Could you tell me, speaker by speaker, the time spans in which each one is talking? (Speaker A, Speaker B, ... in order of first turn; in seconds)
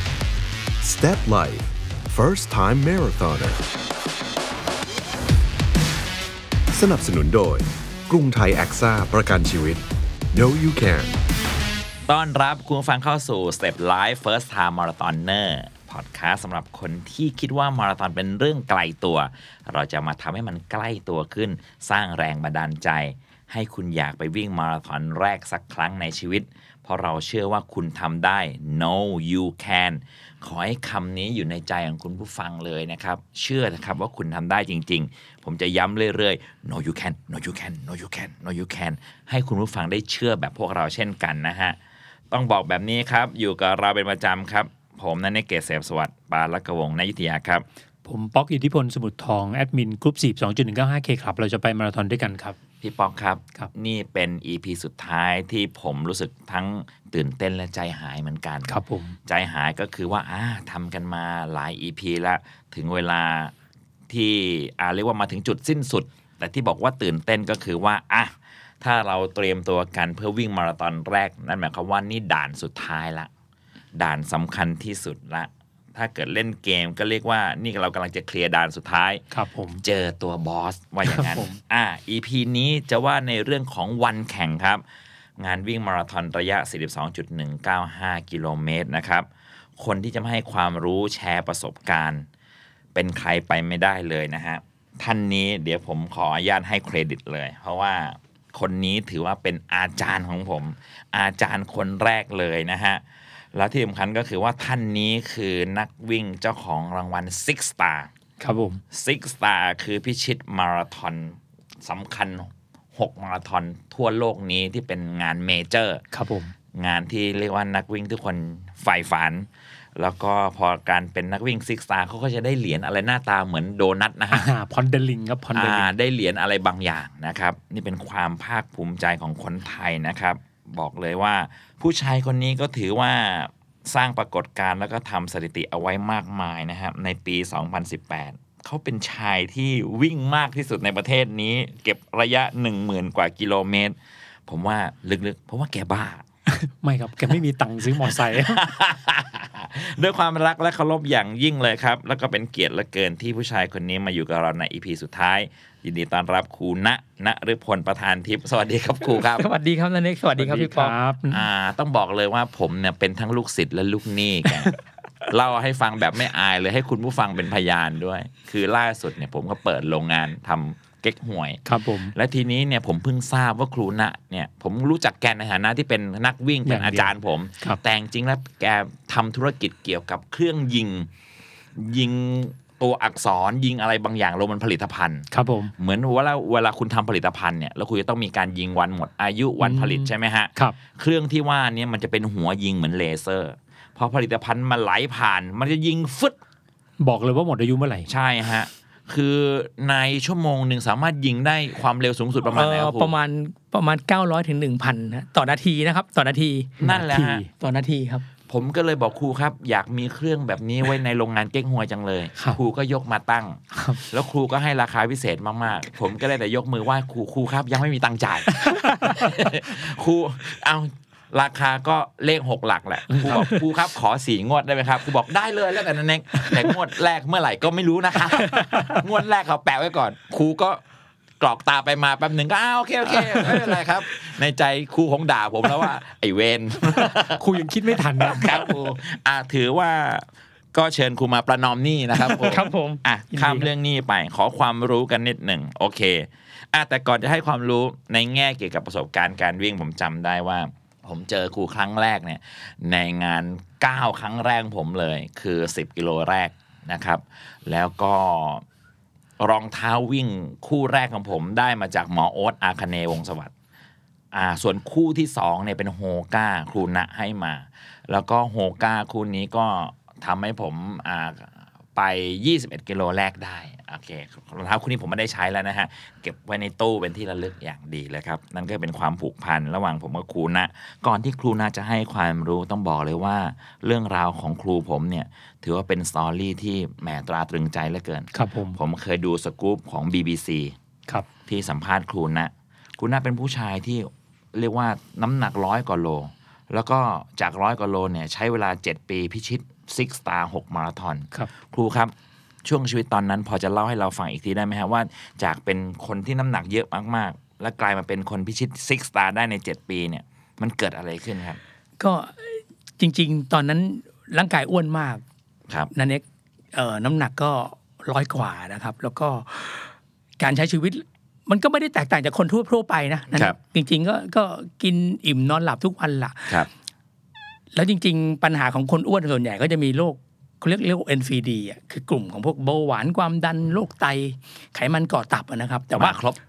Speaker A: 0.8-3.6, 6.7-11.2
Speaker B: 12.1-41.8, 42.3-47.6, 52.8-58.7, 59.2-63.5, 64.1-73.3, 74.0-79.2, 79.8-84.8, 85.4-89.2, 89.8-92.2, 92.9-103.0, 103.5-108.1, 108.9-116.0, 116.8-124.5, 125.5-143.9, 144.5-146.2, 148.0-159.5, 161.3-164.7, 165.3-181.1, 181.8-196.4, 198.1-203.1, 206.8-207.4, 208.5-230.8, 231.4-237.4, 238.2-258.6, 259.4-263.5, 264.3-290.7, 291.5-302.1, 302.6-311.6, 336.0-336.4
Speaker C: 48.0-52.5, 58.7-59.1, 79.3-79.8, 81.1-81.5, 108.4-108.8, 116.1-116.5, 124.3-125.9, 146.5-148.6, 160.4-161.4, 171.7-172.1, 176.7-177.8, 185.3-185.7, 189.6-190.7, 197.0-198.1, 206.8-207.5, 213.7-214.0, 218.6-219.3, 223.1-223.5, 237.0-238.7, 242.2-243.7, 288.3-288.8
Speaker D: 159.1-160.9, 202.5-206.8, 207.6-208.2, 312.0-315.2, 315.9-316.2, 316.7-326.6, 327.7-336.2